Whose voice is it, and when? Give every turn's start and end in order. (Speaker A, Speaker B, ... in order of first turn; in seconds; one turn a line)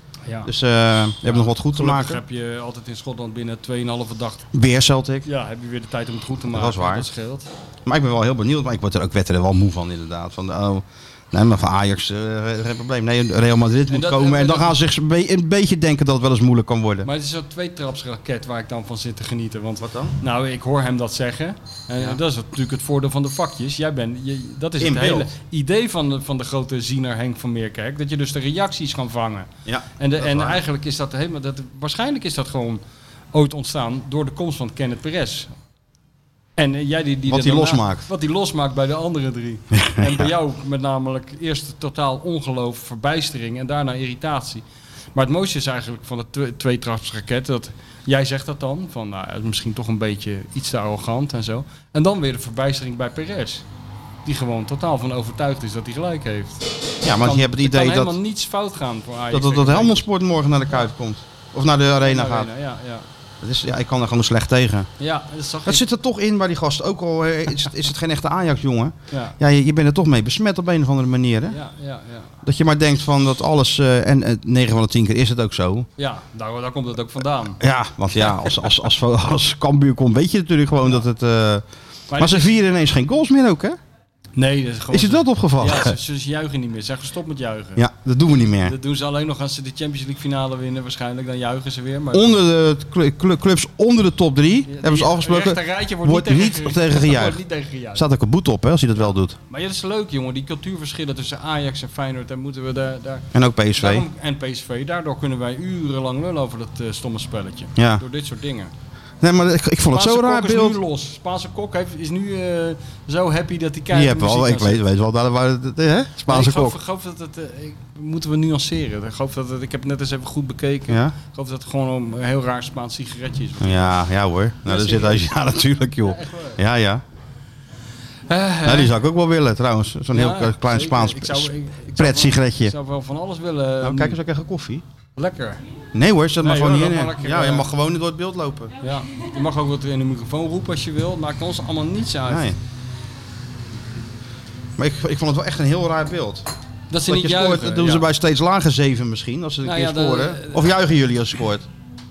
Speaker A: 0.5-2.2
Speaker B: 1.2-4.5
Speaker A: 4.5-5.3
Speaker B: 5.2-7.5
Speaker A: 6.5-7.1
Speaker A: 7.8-17.1
Speaker B: 13.9-14.8
Speaker B: 17.0-32.8
Speaker A: 19.8-20.1
Speaker A: 24.8-25.3
Speaker A: 29.7-30.6
Speaker B: 33.3-35.5
Speaker B: 36.6-44.6
Speaker A: 37.3-38.0
Speaker A: 39.7-40.3
Speaker B: 45.1-53.6
Speaker B: 54.2-56.7
Speaker A: 57.0-58.2
Speaker B: 57.2-60.1
Speaker A: 59.3-62.5
Speaker B: 62.0-63.1
Speaker A: 63.4-64.9
Speaker B: 65.0-65.8
Speaker A: 65.7-71.6
Speaker B: 69.1-69.4
Speaker B: 71.5-72.3
Speaker A: 72.4-75.9
Speaker B: 76.0-77.6
Speaker A: 77.6-81.7
Speaker B: 78.2-78.5
Speaker B: 82.1-82.5
Speaker A: 82.2-83.8
Speaker B: 84.4-87.8
Speaker A: 84.9-86.0
Speaker A: 87.8-88.8
Speaker B: 88.6-92.3
Speaker A: 92.1-97.4
Speaker B: 94.7-98.0
Speaker A: 97.9-99.4
Speaker B: 99.5-108.7
Speaker A: 103.3-104.1
Speaker A: 107.8-108.0
Speaker A: 109.2-110.8
Speaker B: 109.9-114.8
Speaker A: 113.9-116.8
Speaker B: 116.3-124.0
Speaker A: 120.9-121.2
Speaker A: 123.6-127.0
Speaker B: 124.7-125.3
Speaker B: 126.0-126.6
Speaker B: 128.3-128.9
Speaker A: 128.7-132.8
Speaker B: 130.1-134.2
Speaker A: 133.8-134.8
Speaker B: 135.2-135.6
Speaker A: 135.9-138.7
Speaker B: 136.4-137.7
Speaker B: 138.8-142.5
Speaker A: 142.3-142.6
Speaker A: 144.8-146.5
Speaker B: 146.9-148.1
Speaker A: 147.1-151.7
Speaker B: 149.6-150.7